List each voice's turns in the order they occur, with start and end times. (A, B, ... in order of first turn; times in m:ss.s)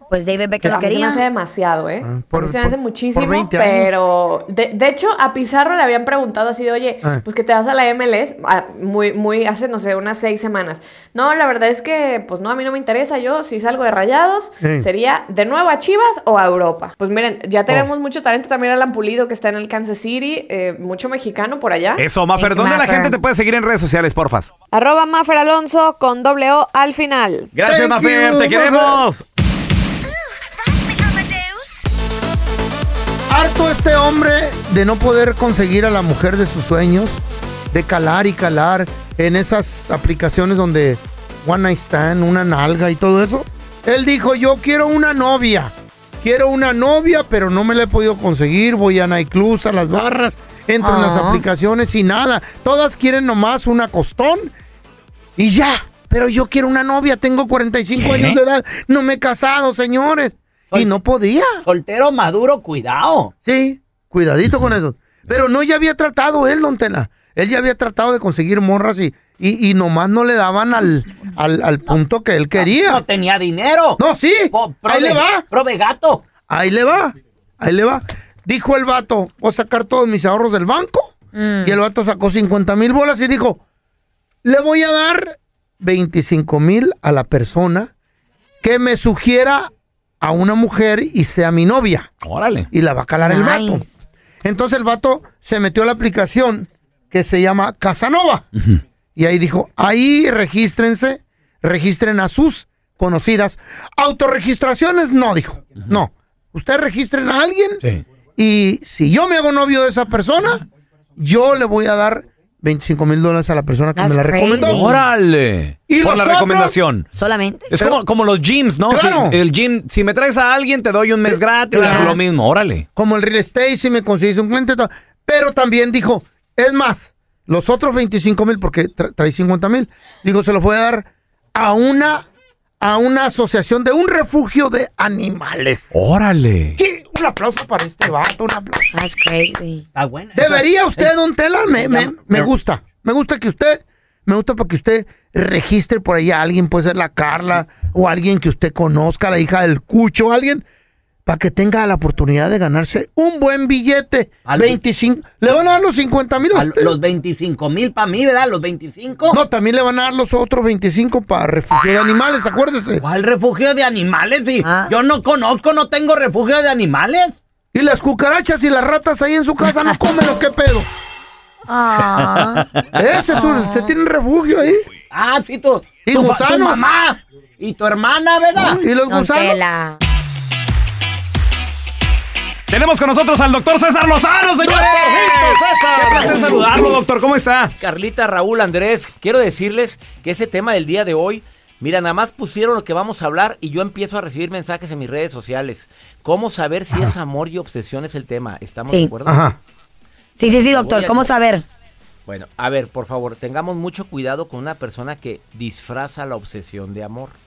0:00.1-0:01.2 A
0:00.6-0:22.0 B
0:02.0-0:03.9 C
0:14.6-0:14.9 C
0:22.0-0:24.5 D
0:22.4-0:23.1 A
0:24.7-0:27.5 B
0:27.5-0:29.2 D
0:27.6-0:29.0 C
0:33.3-0:37.2 C
0:37.7-0:54.5 C
0:50.8-0:51.4 A
0:55.4-1:01.5 C
0:58.0-0:58.4 D
1:01.6-1:03.3 E
1:03.4-1:13.0 C
1:12.6-1:14.0 E
1:14.0-1:15.4 C
1:14.5-1:16.2 E
1:16.5-1:23.6 C
1:21.3-1:21.8 A
1:24.4-1:27.9 C
1:28.6-1:29.7 C
1:30.2-1:32.1 C
1:32.2-1:32.7 D
1:32.7-1:33.8 C
1:33.3-1:34.0 A
1:34.4-1:38.5 C
1:39.2-1:47.8 C
1:48.4-1:50.6 C
1:51.2-1:54.9 C
1:54.0-1:55.0 A
1:54.6-1:57.1 D
1:55.9-1:56.8 C
1:57.1-1:57.7 A
1:57.7-2:02.9 D
1:58.9-1:59.4 C
2:01.2-2:02.2 C
2:01.7-2:02.2 A
2:03.0-2:12.3 C
2:12.8-2:15.9 C
2:15.9-2:16.8 D
2:16.8-2:18.9 C
2:18.9-2:19.8 A
2:20.0-2:21.1 E
2:20.4-2:30.6 C
2:21.8-2:22.5 E
2:31.3-2:36.9 C
2:34.4-2:34.8 E
2:36.5-2:39.4 E
2:39.3-2:43.0 C
2:43.0-2:47.3 E
2:44.6-2:45.0 A
2:47.7-2:50.9 C
2:51.7-2:52.7 A
2:52.9-2:54.8 C
2:53.3-2:54.0 A
2:55.1-2:58.8 E
2:56.1-2:56.9 C
2:58.6-2:59.6 C
2:59.1-3:00.0 A
3:02.7-3:07.7 D
3:04.6-3:06.9 C
3:07.8-3:19.4 F
3:19.2-3:19.6 C
3:20.4-3:21.6 A
3:20.5-3:21.3 F
3:22.3-3:27.4 F